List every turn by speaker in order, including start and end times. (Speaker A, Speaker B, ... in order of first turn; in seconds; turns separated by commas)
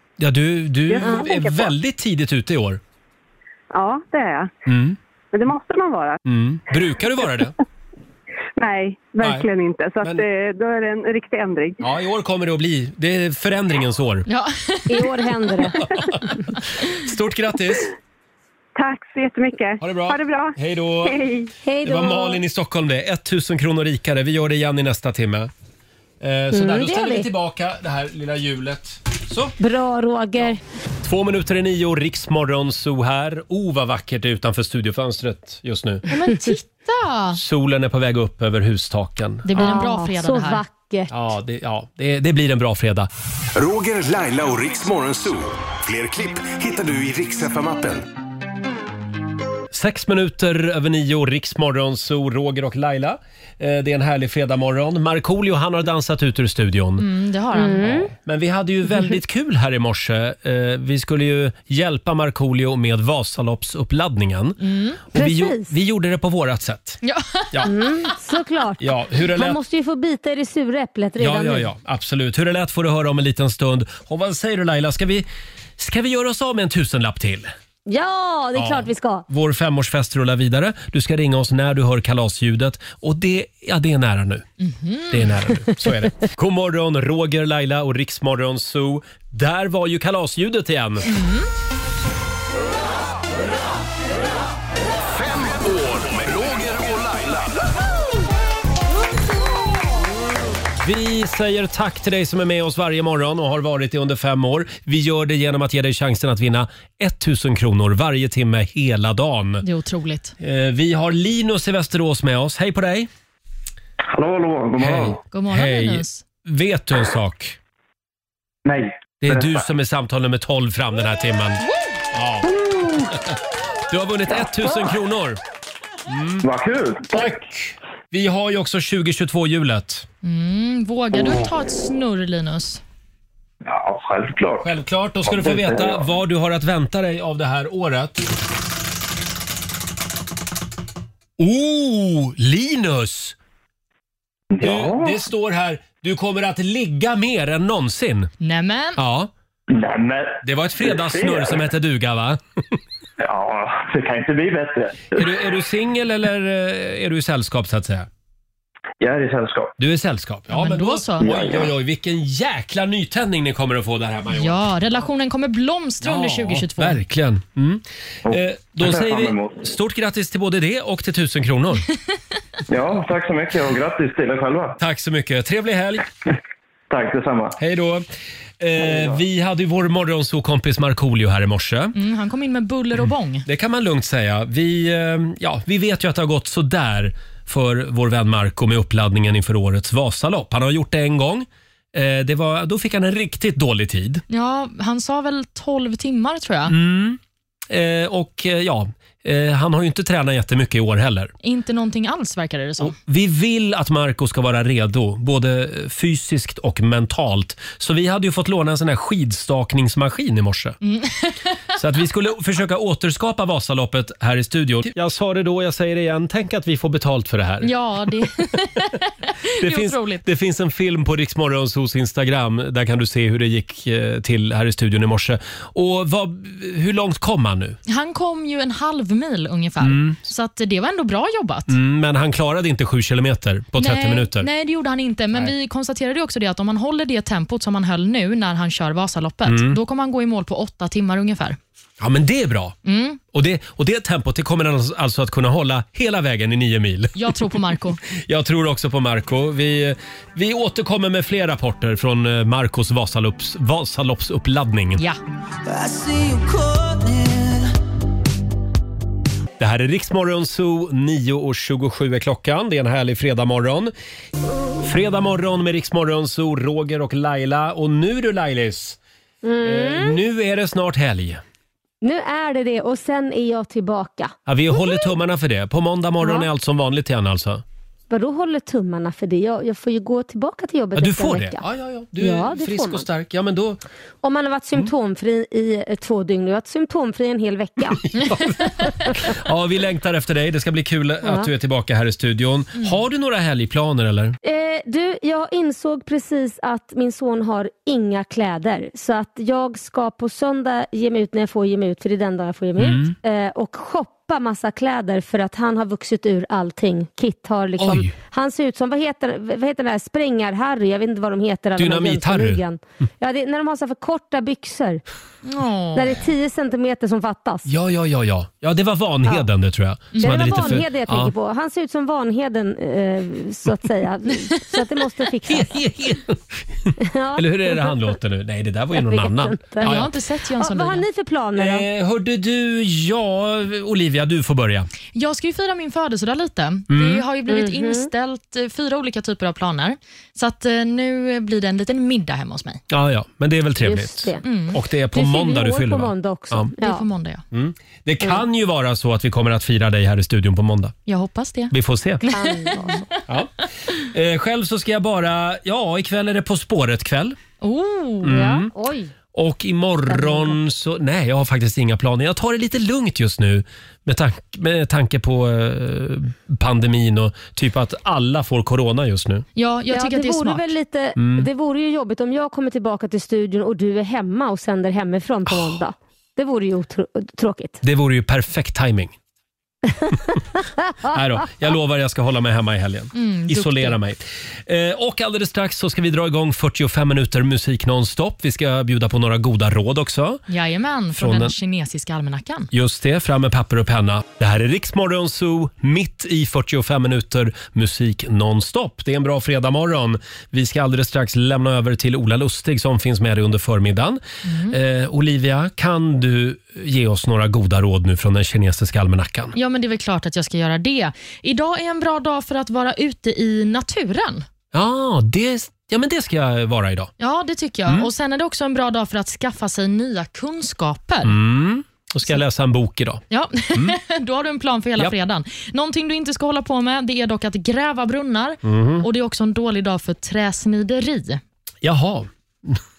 Speaker A: 0.2-2.8, Speaker B: 0.9-1.7, Speaker B: 3.7-4.5, Speaker A: 4.7-5.0, Speaker B: 5.3-6.2, Speaker A: 6.2-7.5, Speaker B: 8.6-11.8, Speaker A: 9.2-9.5, Speaker A: 11.8-14.3, Speaker C: 14.3-15.7, Speaker D: 14.9-15.8, Speaker A: 15.9-17.9, Speaker B: 18.8-21.5, Speaker A: 19.8-21.2, Speaker D: 21.6-22.4, Speaker A: 21.8-25.5, Speaker A: 26.2-29.6, Speaker D: 26.5-27.3, Speaker D: 29.6-30.6, Speaker A: 31.0-36.1, Speaker C: 36.1-37.4, Speaker A: 37.3-39.5, Speaker C: 39.5-40.6, Speaker D: 39.6-41.1, Speaker A: 41.1-43.1, Speaker E: 43.5-48.0, Speaker A: 49.7-57.1, Speaker C: 57.0-57.9, Speaker D: 57.5-58.1, Speaker A: 57.8-64.6, Speaker C: 64.6-65.0, Speaker A: 65.1-67.0, Speaker D: 65.2-65.7, Speaker C: 67.0-67.7, Speaker D: 67.7-71.7, Speaker A: 68.8-69.6, Speaker A: 71.2-75.3, Speaker A: 75.8-77.5, Speaker D: 77.9-79.3, Speaker A: 78.5-84.5, Speaker C: 84.6-85.3, Speaker A: 85.1-91.1, Speaker C: 91.1-91.5, Speaker E: 95.2-97.4, Speaker A: 100.8-109.7, Speaker C: 109.6-110.3, Speaker A: 110.4-113.1, Speaker F: 114.1-115.2, Speaker A: 114.8-117.6, Speaker C: 115.3-116.2, Speaker F: 118.7-119.7, Speaker A: 119.2-121.6, Speaker A: 122.1-122.5, Speaker A: 123.9-125.4, Speaker A: 126.1-126.5, Speaker F: 126.4-127.4, Speaker A: 127.1-130.1, Speaker C: 130.2-132.8, Speaker F: 131.2-131.5, Speaker F: 133.6-134.7, Speaker A: 134.6-138.2, Speaker F: 135.2-136.1, Speaker A: 141.4-143.4, Speaker F: 144.5-145.2, Speaker A: 144.6-148.3, Speaker C: 148.4-149.0, Speaker A: 149.0-149.3, Speaker F: 149.7-151.7, Speaker A: 150.4-152.4, Speaker F: 153.2-155.5, Speaker A: 155.2-158.1, Speaker F: 159.0-159.7, Speaker A: 159.8-164.6, Speaker C: 160.5-161.3, Speaker F: 161.2-161.7, Speaker C: 164.3-167.0, Speaker A: 166.0-171.9, Speaker F: 168.3-169.7, Speaker F: 172.7-174.8, Speaker A: 174.8-176.1, Speaker F: 176.9-177.6, Speaker A: 177.6-178.1, Speaker A: 178.6-182.0, Speaker F: 178.8-179.2, Speaker C: 181.9-183.5, Speaker A: 183.5-194.2, Speaker C: 194.3-196.8, Speaker A: 196.7-201.3, Speaker C: 201.4-203.0, Speaker A: 202.8-210.8, Speaker C: 210.8-211.5, Speaker A: 211.8-217.7, Speaker C: 217.6-220.2, Speaker A: 219.6-227.8, Speaker C: 227.9-231.8, Speaker A: 229.8-230.2, Speaker A: 231.7-234.5, Speaker C: 233.8-241.6, Speaker A: 239.5-239.8, Speaker A: 242.0-242.8, Speaker C: 242.8-243.2, Speaker A: 243.3-255.0, Speaker C: 247.2-248.0, Speaker E: 255.7-257.5, Speaker A: 259.6-263.9, Speaker A: 264.8-269.0, Speaker D: 269.4-270.2, Speaker A: 269.6-271.4, Speaker D: 272.0-275.0, Speaker A: 274.5-277.6, Speaker D: 278.1-281.6, Speaker A: 281.0-283.8, Speaker D: 282.2-283.1, Speaker D: 284.2-288.0, Speaker A: 288.0-294.4, Speaker D: 291.2-291.5, Speaker D: 294.4-315.0, Speaker A: 302.8-303.1, Speaker A: 307.8-308.1, Speaker A: 311.8-312.6, Speaker C: 315.4-316.3, Speaker D: 315.9-317.7, Speaker A: 317.7-321.3, Speaker C: 320.1-320.8, Speaker D: 320.2-325.7, Speaker A: 325.5-330.1, Speaker D: 327.0-328.0, Speaker D: 328.9-330.0, Speaker C: 329.8-331.1, Speaker D: 330.6-331.9, Speaker A: 331.6-334.9, Speaker C: 335.1-342.8, Speaker A: 336.9-337.2, Speaker D: 337.5-338.1, Speaker A: 342.9-346.7, Speaker D: 343.8-344.4, Speaker C: 344.4-344.8, Speaker D: 345.1-347.0, Speaker C: 346.8-347.4, Speaker A: 347.5-350.9, Speaker C: 351.1-353.1, Speaker A: 351.7-352.2, Speaker D: 352.3-353.1, Speaker A: 353.3-357.4, Speaker C: 357.6-358.3, Speaker A: 358.2-358.7, Speaker D: 358.2-359.1, Speaker A: 359.3-369.4, Speaker D: 360.1-360.6, Speaker C: 369.6-370.7, Speaker D: 369.9-377.8, Speaker A: 371.2-371.5, Speaker A: 377.8-379.1, Speaker A: 381.0-390.4, Speaker C: 383.1-384.0, Speaker C: 390.5-392.7, Speaker A: 391.1-391.6, Speaker A: 392.7-409.6, Speaker C: 404.5-404.8, Speaker C: 409.6-414.5, Speaker A: 414.7-417.1, Speaker C: 417.2-421.4, Speaker A: 421.2-423.2, Speaker C: 423.3-431.4, Speaker A: 423.7-424.0, Speaker A: 428.6-429.1, Speaker A: 431.8-432.8